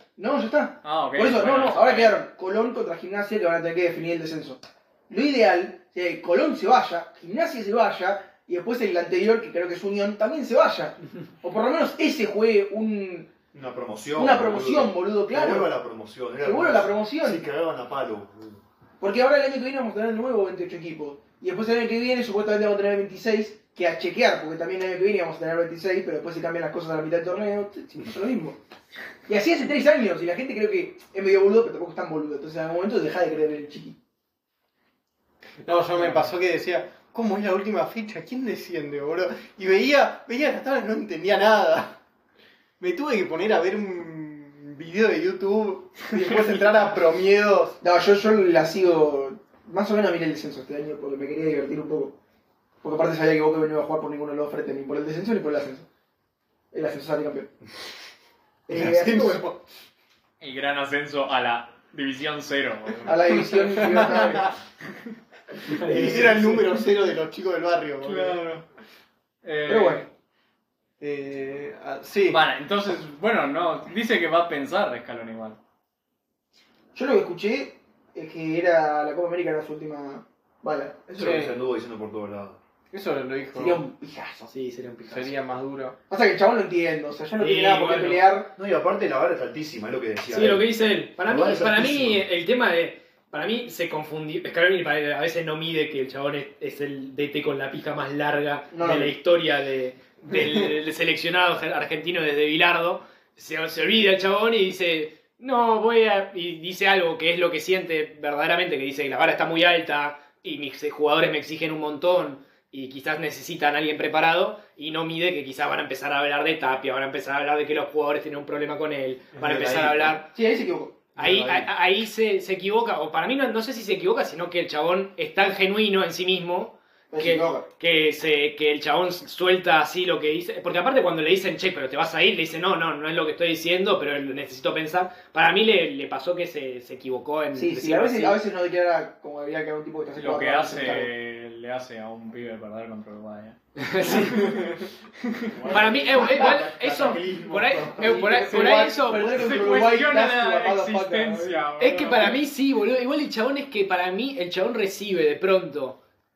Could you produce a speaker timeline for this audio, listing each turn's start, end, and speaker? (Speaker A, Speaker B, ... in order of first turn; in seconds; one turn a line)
Speaker A: 0.2-13.3
Speaker B: 0.8-2.2
Speaker C: 13.5-18.6
Speaker A: 14.2-15.8
Speaker A: 16.4-17.4
Speaker A: 19.0-28.6
Speaker A: 29.3-34.0
Speaker D: 35.6-42.0
Speaker B: 36.0-36.3
Speaker D: 42.8-47.8
Speaker A: 47.8-52.2
Speaker A: 52.8-55.9
Speaker A: 56.7-57.5
Speaker A: 58.7-59.4
Speaker D: 58.7-59.6
Speaker B: 60.4-64.2
Speaker A: 63.0-64.5
Speaker D: 63.8-64.5
Speaker D: 65.7-68.4
Speaker A: 65.7-66.8
Speaker B: 68.0-68.6
Speaker B: 69.4-70.1
Speaker A: 69.7-70.0
Speaker D: 71.0-72.4
Speaker B: 72.3-75.6
Speaker A: 76.9-81.0
Speaker C: 81.1-82.6
Speaker D: 81.2-81.6
Speaker D: 82.9-83.8
Speaker A: 83.5-84.5
Speaker E: 84.5-85.3
Speaker D: 85.1-86.0
Speaker A: 86.1-88.5
Speaker E: 87.4-88.3
Speaker C: 88.5-92.2
Speaker E: 90.3-120.3
Speaker A: 98.7-99.1
Speaker C: 119.3-120.2
Speaker A: 120.3-121.0
Speaker E: 121.2-138.4
Speaker A: 127.1-127.7
Speaker A: 137.6-141.1
Speaker B: 140.2-143.6
Speaker E: 143.8-144.7
Speaker B: 145.5-146.1
Speaker E: 145.7-149.6
Speaker D: 146.1-148.3
Speaker C: 146.2-147.8
Speaker A: 148.0-151.6
Speaker B: 148.5-152.4
Speaker E: 151.8-156.0